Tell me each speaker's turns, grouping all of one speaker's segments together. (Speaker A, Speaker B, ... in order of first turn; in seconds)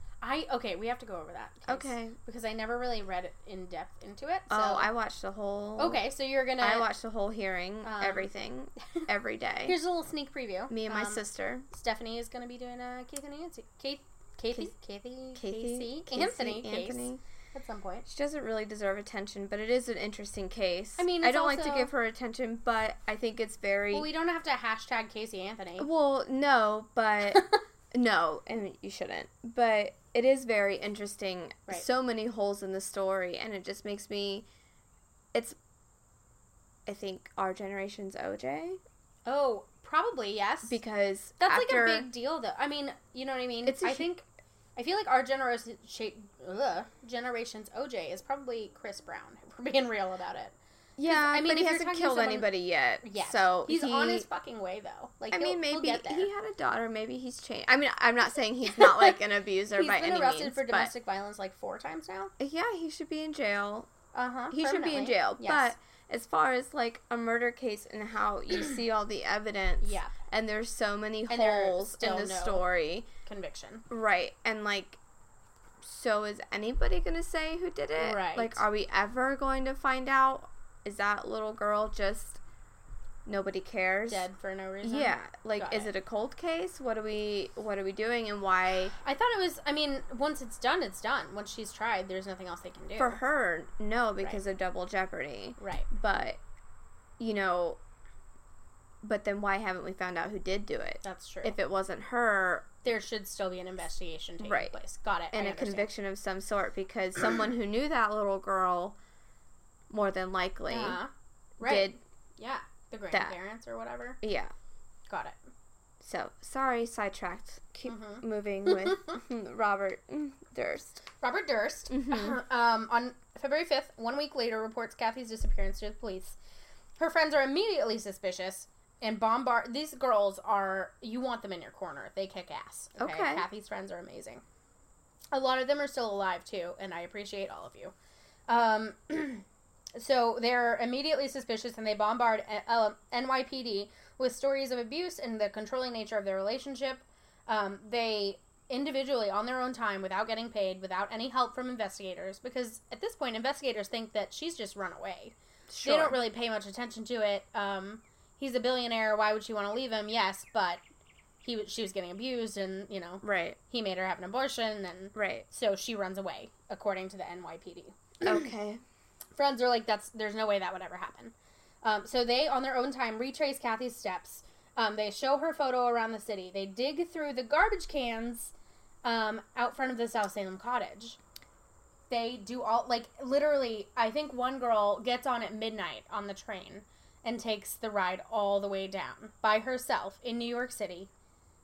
Speaker A: 0.2-4.9, 5.8-6.9, 7.8-8.3, 9.6-18.1, 21.0-21.9, 23.9-25.9, 27.3-27.6, 39.2-40.8, 41.4-52.5, 53.0-56.3, 58.7-59.1, 59.7-62.3, 64.1-65.7, 69.8-70.1, 71.3-72.6, 73.2-73.8, 78.0-78.6, 84.1-85.9, 89.0-93.2, 95.6-95.9, 101.0-101.5, 102.8-105.9, 110.7-114.2, 115.1-115.4, 117.9-119.1, 121.2-126.4, 127.0-134.4, 135.3-137.9, 138.5-139.4, 139.9-160.8, 161.4-168.4, 169.3-178.5, 179.0-181.2, 182.1-191.1
Speaker B: 1.7-2.2, 4.5-6.0, 6.6-9.8, 10.7-11.7, 15.3-17.2, 18.0-24.1, 25.8-34.5, 36.9-38.8, 40.6-42.1, 43.6-44.1, 51.0-54.3, 55.3-60.9, 62.4-63.9, 64.5-73.1, 73.9-75.0, 75.8-82.4, 83.2-84.2, 84.8-88.9, 93.0-96.4, 97.2-97.8, 99.0-102.7, 104.4-104.7, 105.3-109.0, 109.9-111.0, 111.6-112.0, 113.1-113.4, 114.2-114.5, 116.0-121.0, 121.9-122.4, 133.0-133.4, 155.7-156.2, 163.2-163.6, 165.1-165.4, 168.2-168.8